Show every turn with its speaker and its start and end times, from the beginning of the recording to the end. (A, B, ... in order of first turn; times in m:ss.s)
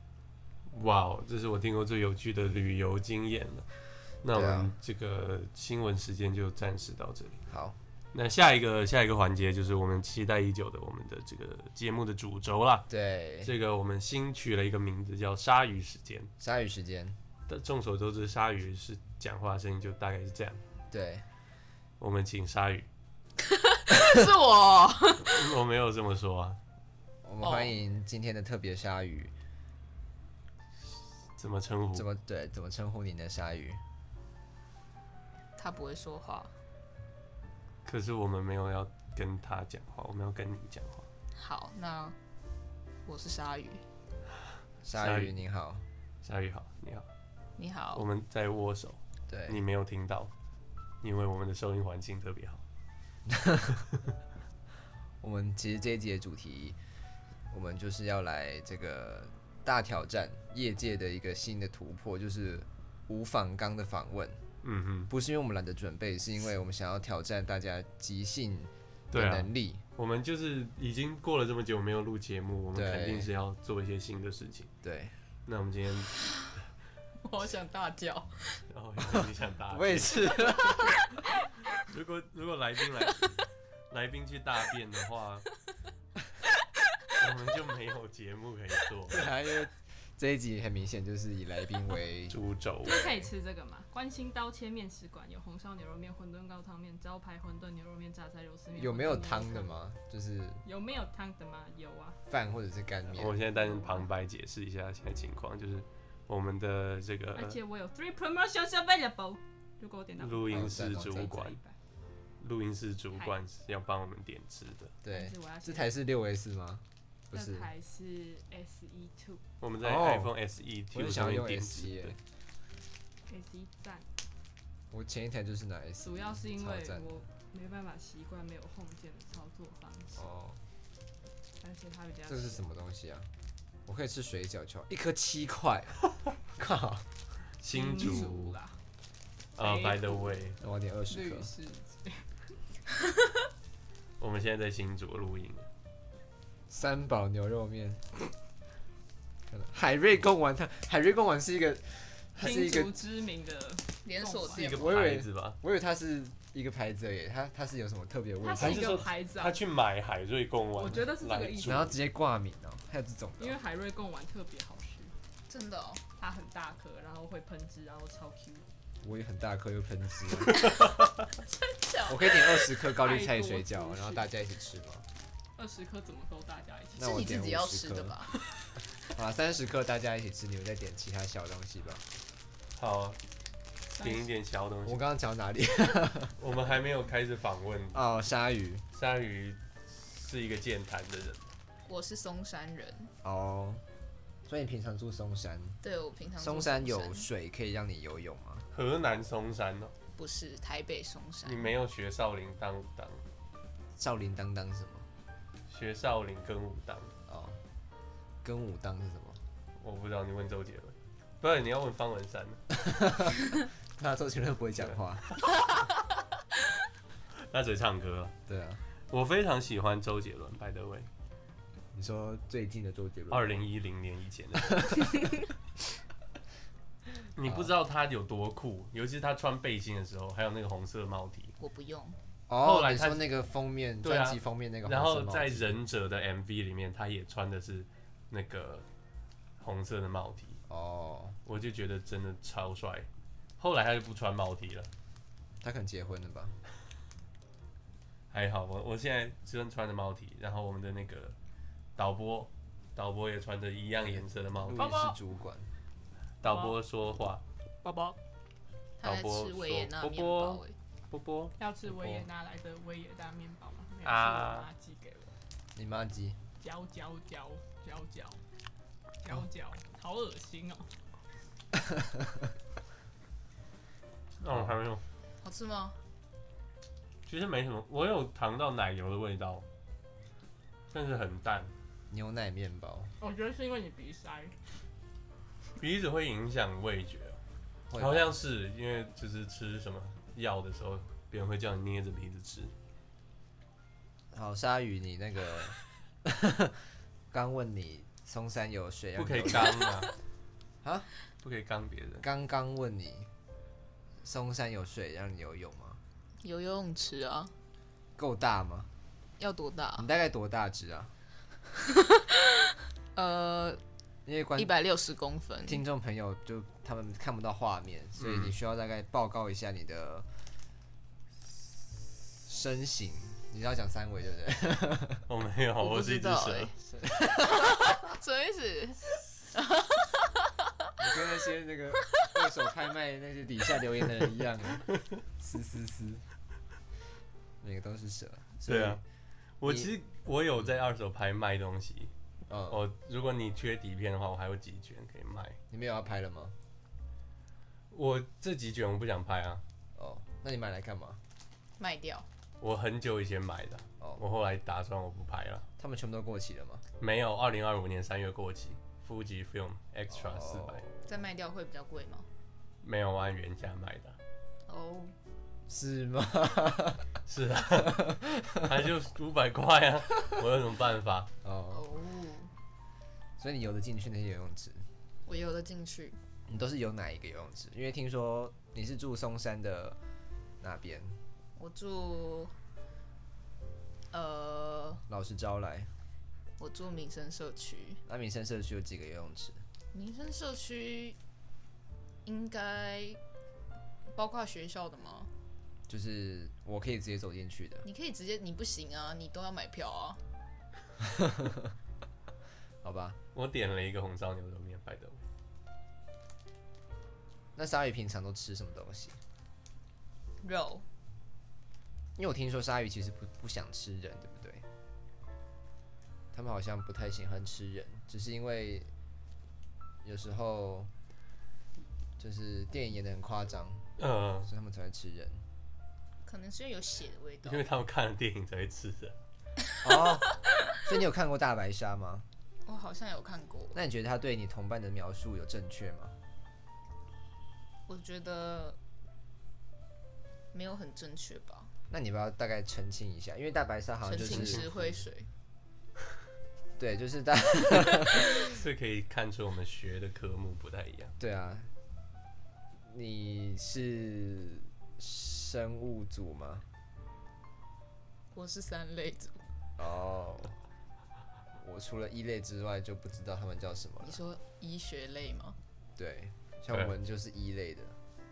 0:00.7-0:03.6 A
0:04.2-0:07.4 A
0:04.3-0:04.7 B
0:07.5-0:07.8 B
0:08.1-0:12.9 A
0:12.9-0:13.5 B
0:13.4-0:16.3 A
0:16.4-0:17.2 B
0:17.5-0:20.6 A
0:20.9-0:21.2 B
0:22.0-0:22.9 A
0:23.4-0:25.5 C
0:25.2-0:26.6 A
0:27.2-0:29.3 B
0:27.4-0:27.8 C
0:31.4-0:32.1 A
0:31.9-0:33.8 B
0:35.6-0:36.5 C
0:37.8-0:41.1 A
0:41.4-0:42.2 C
0:43.0-0:43.8 C
0:44.8-0:45.8 B
0:45.0-0:45.4 A
0:46.2-0:47.1 A
0:47.6-0:48.0 C
0:47.9-0:50.3 A
0:49.3-0:49.6 B
0:51.0-0:52.6 A
0:53.2-0:53.8 B
0:55.2-0:56.8 B
0:57.5-1:04.4 B
1:04.6-1:05.1 A
1:05.1-1:09.8 B
1:09.1-1:14.7 A
1:12.7-1:13.3 B
1:14.8-1:15.1 B
1:15.4-1:16.1 A
1:17.2-1:18.6 C
1:18.7-1:20.8 A
1:19.7-1:20.9 B
1:21.7-1:25.4 A
1:27.2-1:29.2 A
1:29.1-1:33.3 B
1:32.3-1:33.1 A
1:32.8-1:39.8 D
1:38.7-1:40.6 B
1:40.6-1:42.2 D
1:42.3-1:43.4 B
1:43.1-1:47.6 A
1:43.5-1:44.1 D
1:47.3-1:51.7 D
1:50.2-1:51.6 A
1:50.5-1:51.3 B
1:52.4-1:54.9 A
1:55.0-1:57.7 B
1:55.0-1:55.9 D
1:57.3-1:59.4 D
1:59.6-2:02.2 A
1:59.8-2:00.3 B
2:00.9-2:02.2 B
2:03.3-2:04.1 D
2:04.9-2:07.2 B
2:06.0-2:10.2 D
2:10.1-2:10.6 B
2:11.6-2:12.6 D
2:12.3-2:13.3 B
2:13.8-2:16.0 B
2:16.5-2:17.1 B
2:17.6-2:18.6 A
2:17.7-2:18.8 D
2:19.6-2:20.4 D
2:19.6-2:20.6 A
2:20.6-2:21.5 B
2:21.1-2:22.4 D
2:24.2-2:25.7 A
2:26.7-2:28.1 B
2:29.5-2:32.9 B
2:32.4-2:34.8 D
2:34.0-2:34.9 C
2:34.5-2:35.6 A
2:34.8-2:39.1 B
2:38.4-2:39.6 D
2:38.6-2:41.9 A
2:40.7-2:41.9 D
2:41.6-2:43.6 B
2:43.4-2:45.1 D
2:45.5-2:46.0 C
2:46.2-2:48.6 D
2:49.0-2:50.7 B
2:51.4-2:52.7 C
2:52.0-2:55.1 B
2:52.9-2:54.3 D
2:55.6-2:57.2 D
2:56.9-2:58.2 B
2:57.0-2:58.4 C
2:59.0-3:02.0 B
3:02.8-3:03.2 A
3:03.9-3:04.3 D
3:03.9-3:05.0 A
3:04.8-3:06.4 B
3:06.4-3:08.0 A
3:07.9-3:08.8 B
3:08.9-3:11.4 A
3:11.9-3:13.1 C
3:13.2-3:13.8 B
3:14.4-3:15.8 B
3:15.8-3:17.2 C
3:16.4-3:18.7 B
3:18.7-3:19.9 A
3:20.2-3:21.8 C
3:21.4-3:23.2 A
3:24.0-3:25.1 B
3:25.7-3:27.1 A
3:27.3-3:27.6 B
3:28.4-3:29.4 B
3:29.8-3:32.6 A
3:32.7-3:35.3 B
3:37.4-3:38.3 A
3:38.5-3:38.8 B
3:39.1-3:41.1 A
3:41.9-3:43.6 B
3:43.3-3:45.2 A
3:44.8-3:45.0 B
3:47.3-3:51.5 A
3:47.4-3:47.7 B
3:51.6-3:52.2 C
3:52.5-3:55.8 B
3:52.6-3:53.3 A
3:54.0-3:58.8 A
3:59.6-4:00.6 A
4:00.7-4:01.4 B
4:01.4-4:03.1 A
4:03.6-4:04.9 A
4:05.6-4:06.6 B
4:08.3-4:11.4 A
4:12.0-4:14.8 A
4:14.6-4:15.7 B
4:14.7-4:15.2 D
4:16.4-4:17.4 A
4:16.4-4:16.8 D
4:17.8-4:18.2 D
4:19.0-4:20.7 C
4:19.0-4:21.5 A
4:21.6-4:25.3 D
4:21.8-4:22.3 B
4:24.0-4:24.7 A
4:25.7-4:26.4 B
4:26.6-4:28.4 D
4:29.2-4:30.9 D
4:31.9-4:32.2 B
4:34.4-4:35.0 A
4:35.4-4:36.0 C
4:37.2-4:39.6 A
4:40.9-4:41.7 A
4:42.1-4:43.1 B
4:43.2-4:44.5 D
4:45.8-4:47.4 A
4:47.9-4:48.4 B
4:48.0-4:52.7 A
4:54.3-4:59.9 B
4:59.2-5:00.1 A
5:00.8-5:01.1 B
5:01.4-5:02.2 A
5:02.2-5:03.3 B
5:04.2-5:06.0 B
5:06.4-5:07.5 C
5:08.2-5:08.9 B
5:09.4-5:10.1 C
5:10.0-5:11.1 B
5:12.0-5:13.8 C
5:14.2-5:14.7 B
5:14.6-5:15.8 C
5:15.6-5:20.3 B
5:18.2-5:18.5 A
5:22.4-5:25.2 B
5:25.3-5:26.7 A
5:25.8-5:26.8 C
5:26.9-5:27.9 B
5:27.3-5:30.5 C
5:31.0-5:36.2 B
5:37.6-5:39.0 B
5:38.7-5:39.0 A
5:39.6-5:42.1 A
5:39.6-5:39.9 B
5:42.5-5:42.8 B
5:42.7-5:45.6 A
5:45.7-5:46.5 B
5:47.9-5:49.6 A
5:50.0-5:51.2 B
5:51.8-5:52.3 C
5:52.6-5:55.6 A
5:55.8-5:56.8 B
5:57.0-6:00.9 A
6:00.1-6:01.0 B
6:01.0-6:02.3 C
6:02.8-6:04.2 A
6:04.7-6:05.1 C
6:05.7-6:07.0 B
6:07.2-6:11.3 A
6:07.7-6:08.9 B
6:11.4-6:11.8 B
6:11.7-6:12.5 C
6:13.4-6:14.8 B
6:15.2-6:16.2 C
6:16.5-6:20.0 B
6:20.6-6:21.2 B
6:21.6-6:22.5 C
6:24.1-6:25.0 C
6:25.1-6:25.9 B
6:26.6-6:28.0 C
6:28.0-6:29.6 B
6:29.9-6:31.2 C
6:32.2-6:33.2 C
6:34.1-6:35.3 C
6:35.9-6:37.8 B
6:37.8-6:40.2 C
6:41.0-6:41.7 B
6:42.8-6:43.2 B
6:43.3-6:45.2 A
6:47.5-6:49.2 B
6:50.4-6:50.8 C
6:52.2-6:54.6 B
6:56.3-6:58.9 B
7:00.0-7:00.9 B
7:02.2-7:03.9 B
7:04.0-7:04.5 A
7:04.4-7:05.4 B
7:06.2-7:07.6 C
7:07.4-7:09.2 A
7:09.8-7:12.3 B
7:12.6-7:13.8 C
7:13.7-7:16.2 B
7:17.9-7:18.8 C
7:20.5-7:21.7 C
7:21.9-7:25.0 B
7:24.0-7:25.3 C
7:24.2-7:24.6 A
7:26.8-7:28.5 B
7:28.2-7:31.1 A
7:31.2-7:31.7 B
7:32.9-7:36.6 B
7:38.3-7:39.4 C
7:39.8-7:40.6 B
7:41.6-7:44.2 B
7:44.0-7:45.6 C
7:46.0-7:48.0 B